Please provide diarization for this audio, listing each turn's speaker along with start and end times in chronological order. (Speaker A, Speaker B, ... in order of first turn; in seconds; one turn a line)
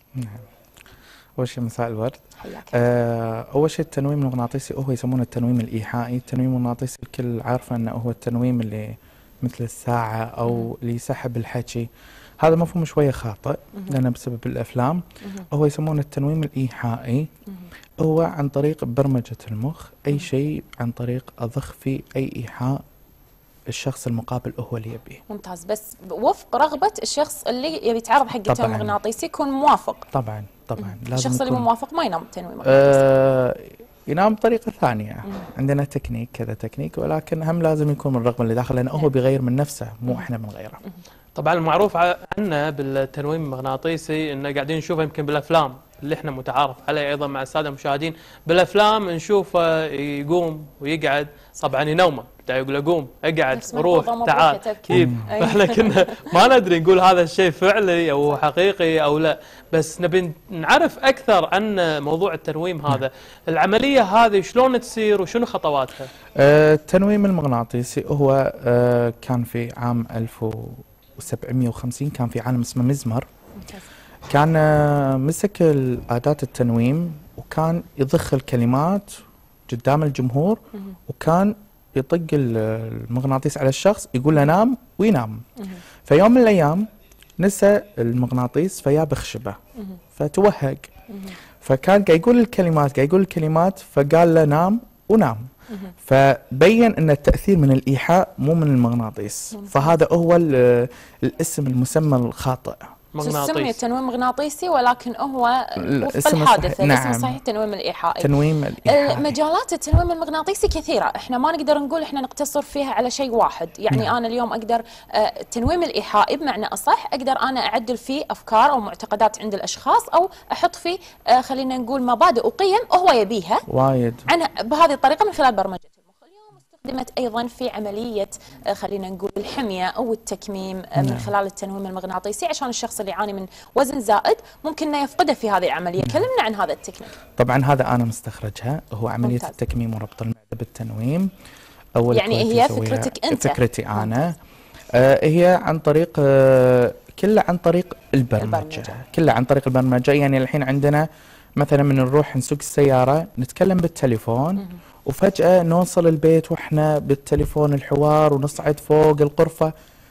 Speaker A: 0.1-0.4
Speaker A: 1.4-2.2
Speaker B: 2.4-2.8
Speaker A: 2.7-11.9
Speaker B: 10.4-10.7
Speaker A: 12.4-17.3
Speaker B: 15.2-15.5
Speaker A: 18.0-22.8
Speaker A: 23.7-25.2
Speaker B: 25.3-30.1
Speaker A: 28.4-29.0
Speaker A: 30.1-31.7
Speaker B: 30.8-33.1
Speaker A: 32.6-40.8
Speaker C: 41.3-66.1
Speaker B: 53.5-56.3
Speaker A: 54.9-55.3
Speaker A: 66.4-73.3
Speaker B: 73.5-73.8
Speaker A: 74.3-85.4
Speaker A: 86.0-86.9
Speaker A: 87.4-89.6
Speaker A: 90.1-90.9
Speaker B: 91.1-91.3
Speaker A: 91.6-95.5
Speaker A: 96.0-102.8
Speaker B: 99.5-100.0
Speaker C: 103.1-103.8
Speaker B: 103.2-123.6
Speaker A: 105.8-107.4
Speaker A: 108.2-109.3
Speaker A: 123.7-124.3
Speaker B: 124.3-137.2
Speaker A: 130.9-131.3
Speaker A: 137.4-141.3
Speaker B: 139.2-139.5
Speaker A: 141.9-144.3
Speaker B: 142.1-144.3
Speaker A: 144.9-159.7
Speaker B: 148.4-148.9